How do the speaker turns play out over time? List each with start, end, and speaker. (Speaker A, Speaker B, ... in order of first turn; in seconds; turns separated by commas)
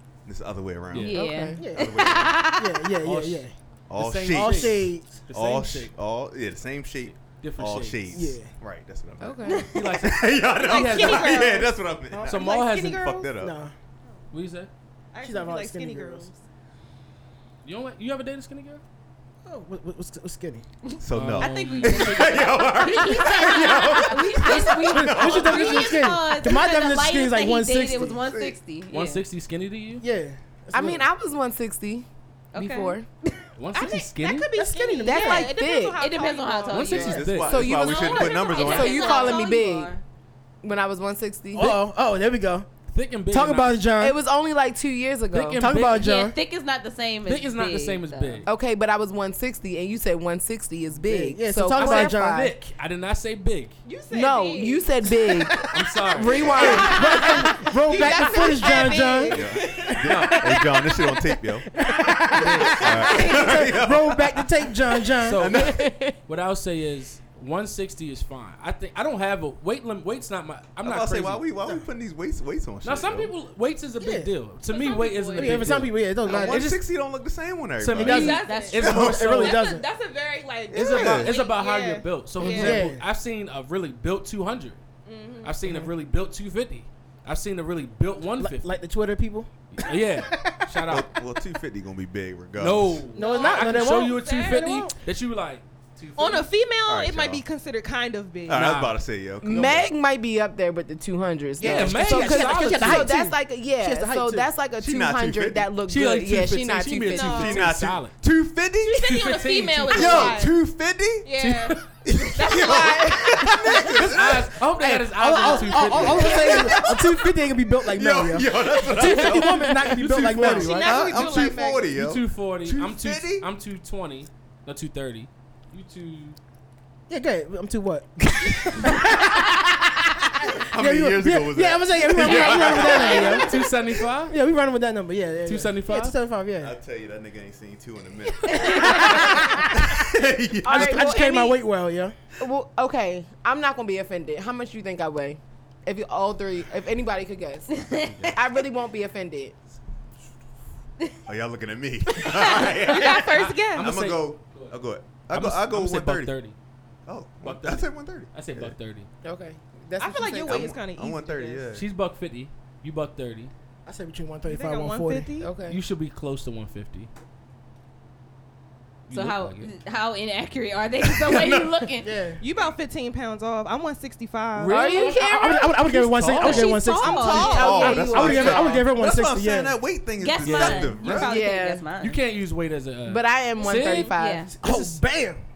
Speaker A: 0.2-1.2, Speaker B: 0.9-1.2, Speaker C: 0.9-2.9, Speaker D: 1.1-1.7, Speaker E: 1.6-3.5, Speaker A: 1.7-2.4, Speaker B: 3.0-5.9, Speaker A: 3.9-13.6, Speaker E: 4.2-5.1, Speaker B: 7.0-8.3, Speaker E: 8.1-8.5, Speaker D: 9.2-9.7, Speaker B: 9.5-11.6, Speaker F: 10.5-11.8, Speaker B: 12.3-13.1, Speaker F: 12.3-13.3, Speaker E: 13.4-13.7, Speaker B: 14.3-14.7, Speaker F: 15.1-16.4, Speaker E: 15.2-16.3, Speaker B: 17.6-18.8, Speaker E: 19.4-20.6, Speaker C: 20.8-29.2, Speaker A: 21.0-26.1, Speaker B: 21.1-22.4, Speaker E: 23.0-28.2, Speaker D: 24.4-24.9, Speaker A: 28.3-28.6, Speaker B: 28.9-30.1, Speaker E: 30.0-31.1, Speaker D: 30.7-33.1, Speaker C: 32.5-33.3, Speaker B: 33.5-34.5, Speaker F: 33.7-39.5, Speaker E: 34.5-35.5, Speaker D: 35.0-36.0, Speaker C: 36.0-40.0, Speaker B: 36.7-37.6, Speaker A: 36.9-39.0, Speaker D: 37.3-40.0, Speaker D: 40.6-41.9, Speaker E: 41.5-42.7, Speaker B: 42.9-43.9, Speaker E: 43.3-44.2, Speaker D: 44.0-45.7, Speaker B: 45.3-46.0, Speaker E: 45.6-46.4, Speaker C: 45.6-48.5, Speaker B: 47.2-48.5, Speaker D: 48.5-52.5, Speaker E: 51.0-52.4, Speaker B: 51.8-53.8, Speaker F: 53.8-55.3, Speaker D: 54.1-57.3, Speaker B: 55.7-56.8, Speaker F: 56.5-60.2, Speaker E: 56.5-65.5, Speaker A: 59.3-61.8, Speaker B: 60.0-60.5, Speaker B: 62.3-62.8, Speaker A: 62.7-64.7, Speaker B: 65.2-71.5, Speaker A: 65.3-65.8, Speaker D: 65.7-66.2, Speaker A: 70.8-73.3, Speaker B: 72.8-76.8, Speaker E: 74.0-74.3, Speaker C: 74.7-75.7, Speaker F: 74.7-75.6, Speaker E: 75.3-76.7, Speaker A: 76.3-79.5, Speaker B: 77.8-79.7, Speaker E: 77.8-79.8, Speaker F: 78.1-82.8, Speaker C: 78.4-78.8, Speaker A: 80.7-81.3, Speaker B: 80.7-84.8, Speaker E: 80.8-81.3, Speaker E: 82.4-83.0, Speaker D: 82.4-82.8, Speaker F: 85.0-85.6, Speaker B: 85.4-88.8, Speaker E: 88.4-90.8, Speaker B: 89.7-91.1, Speaker A: 90.9-93.0, Speaker B: 92.6-96.5, Speaker F: 93.1-94.7, Speaker E: 93.2-94.9, Speaker F: 96.2-98.8, Speaker A: 96.8-97.4, Speaker A: 98.5-99.9, Speaker B: 98.5-99.0, Speaker D: 99.4-107.7, Speaker E: 101.6-104.5, Speaker B: 101.6-103.1, Speaker A: 104.8-105.7, Speaker B: 105.9-108.2, Speaker F: 107.1-107.6, Speaker A: 107.3-109.2, Speaker F: 108.8-110.6, Speaker B: 109.0-110.5, Speaker A: 109.9-114.5, Speaker F: 111.2-113.8, Speaker B: 111.4-111.9, Speaker E: 113.4-120.9, Speaker B: 113.9-116.5, Speaker F: 115.4-116.7, Speaker A: 115.8-123.5, Speaker B: 119.0-126.4, Speaker F: 120.5-121.9, Speaker E: 127.1-133.5, Speaker A: 128.8-129.2, Speaker A: 130.4-133.7, Speaker B: 132.2-134.4, Speaker E: 134.3-136.8, Speaker B: 135.4-136.2, Speaker A: 136.6-141.1, Speaker C: 138.4-139.2, Speaker E: 138.7-139.8, Speaker D: 139.0-139.7, Speaker D: 140.6-141.6, Speaker E: 140.6-142.1, Speaker D: 142.4-149.6, Speaker B: 147.7-148.4, Speaker C: 147.7-148.1, Speaker A: 151.2-156.4, Speaker C: 152.1-153.3, Speaker F: 152.7-153.9, Speaker B: 153.1-156.6, Speaker A: 157.1-158.7, Speaker B: 157.4-159.1, Speaker D: 159.2-160.8, Speaker F: 160.0-161.7, Speaker A: 160.4-161.8, Speaker B: 161.7-163.5, Speaker E: 163.8-165.3, Speaker F: 164.4-165.5, Speaker D: 165.4-165.8, Speaker B: 165.7-167.1, Speaker B: 169.1-169.7, Speaker C: 169.1-172.2, Speaker A: 171.2-171.8, Speaker E: 172.0-172.4, Speaker F: 172.4-174.8, Speaker E: 174.6-179.8, Speaker D: 174.7-176.3, Speaker C: 175.4-175.7, Speaker A: 176.2-181.3, Speaker C: 176.2-178.0, Speaker F: 177.0-177.9, Speaker D: 177.3-178.9, Speaker C: 180.2-182.2, Speaker B: 180.4-181.2, Speaker D: 181.1-181.8, Speaker B: 182.0-184.1, Speaker D: 183.0-184.6, Speaker F: 183.6-184.1, Speaker C: 184.1-184.6, Speaker E: 184.6-185.4